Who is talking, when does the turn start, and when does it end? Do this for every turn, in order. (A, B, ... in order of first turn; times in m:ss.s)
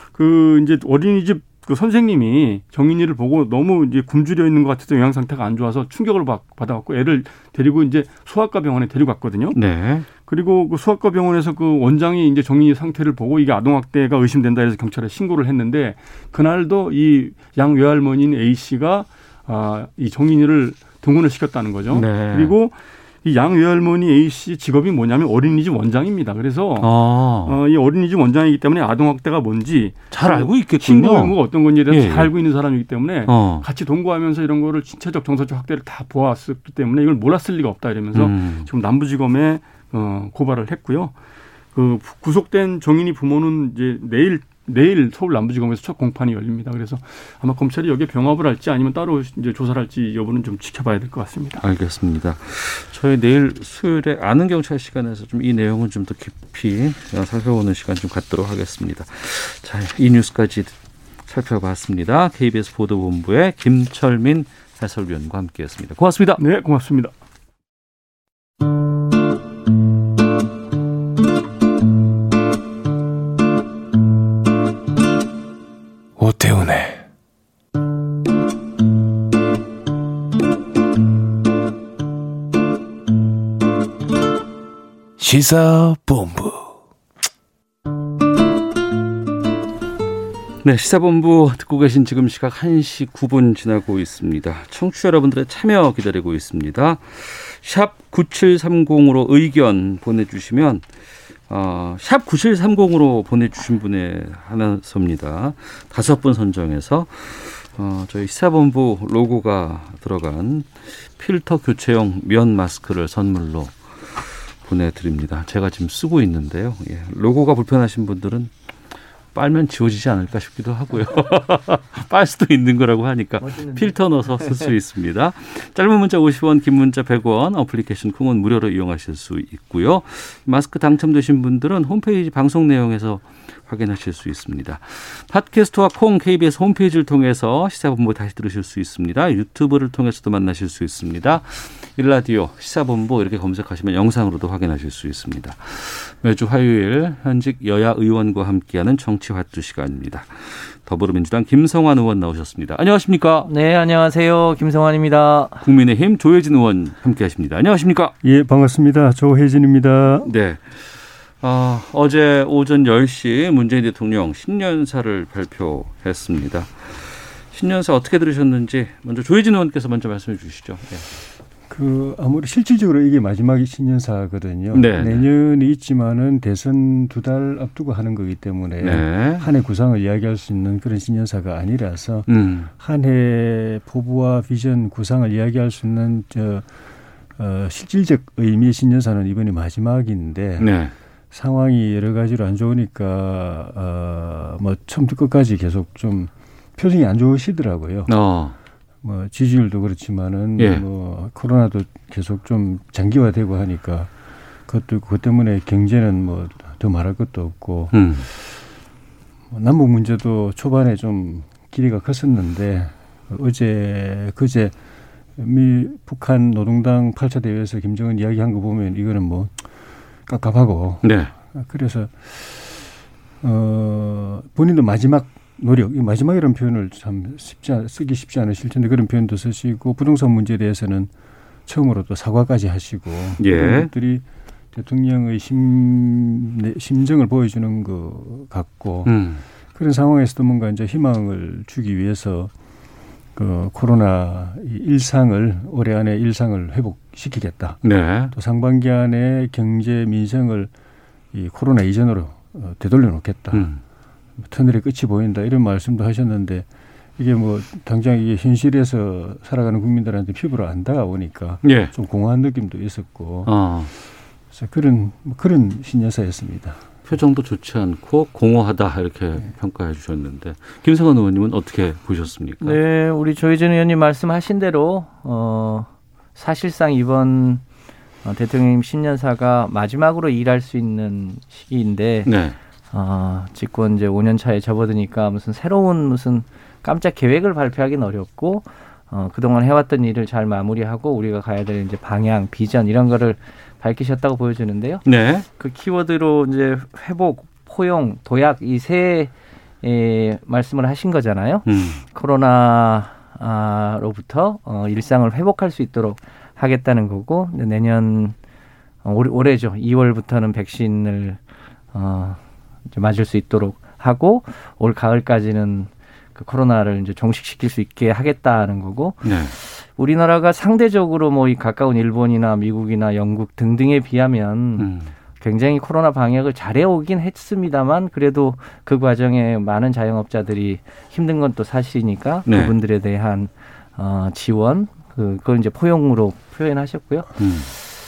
0:00.1-0:09.6 A
0:09.5-0:10.1 B
0:10.2-0:26.9 A
0:21.9-0:22.5 B
0:26.8-0:27.6 B
0:27.4-0:41.2 A
0:30.1-0:32.3 B
0:33.3-0:33.7 B
0:38.1-0:38.7 B
0:41.7-0:51.6 A
0:51.6-1:00.7 B
1:01.3-1:06.4 B
1:06.4-1:07.1 A
1:16.2-1:17.0 C
1:25.2-1:26.6 C
1:30.6-1:40.8 B
1:41.5-1:58.5 B
1:59.3-2:33.5 B
2:03.4-2:03.9 D
2:33.4-2:35.6 D
2:35.6-2:38.1 B
2:38.2-2:40.3 E
2:40.2-2:51.1 B
2:51.7-3:06.6 E
2:54.7-2:55.3 B
2:58.8-2:59.5 B
3:02.3-3:02.7 B
3:07.4-3:10.7 E
3:10.6-3:10.9 B
3:11.3-3:18.1 E
3:18.1-3:18.6 B
3:19.0-3:24.1 E
3:20.6-3:20.8 B
3:24.7-3:28.1 E
3:27.9-3:28.3 B
3:29.5-3:34.7 E
3:35.4-3:39.5 E
3:40.3-3:42.9 E
3:41.0-3:41.3 B
3:43.4-3:51.1 E
3:51.6-3:59.2 E
3:53.4-3:53.9 B
3:59.0-3:59.4 B
3:59.8-4:02.5 E
4:03.4-4:10.7 E
4:07.8-4:08.3 B
4:11.3-4:13.7 E
4:13.5-4:13.8 B
4:14.4-4:16.6 E
4:17.2-4:23.6 E
4:21.6-4:21.9 B
4:23.4-4:23.9 B
4:24.5-4:26.8 E
4:27.1-4:32.8 B
4:32.6-4:37.6 D
4:38.2-4:42.3 D
4:42.2-4:42.6 B
4:42.9-4:55.0 D
4:55.0-4:55.5 B
4:55.6-5:08.4 D
5:01.6-5:02.0 B
5:09.0-5:11.4 D
5:11.9-5:12.4 D
5:12.9-5:24.9 D
5:19.2-5:19.5 B
5:24.8-5:25.1 B
5:25.4-5:37.3 D
5:32.5-5:32.8 B
5:37.4-5:37.7 B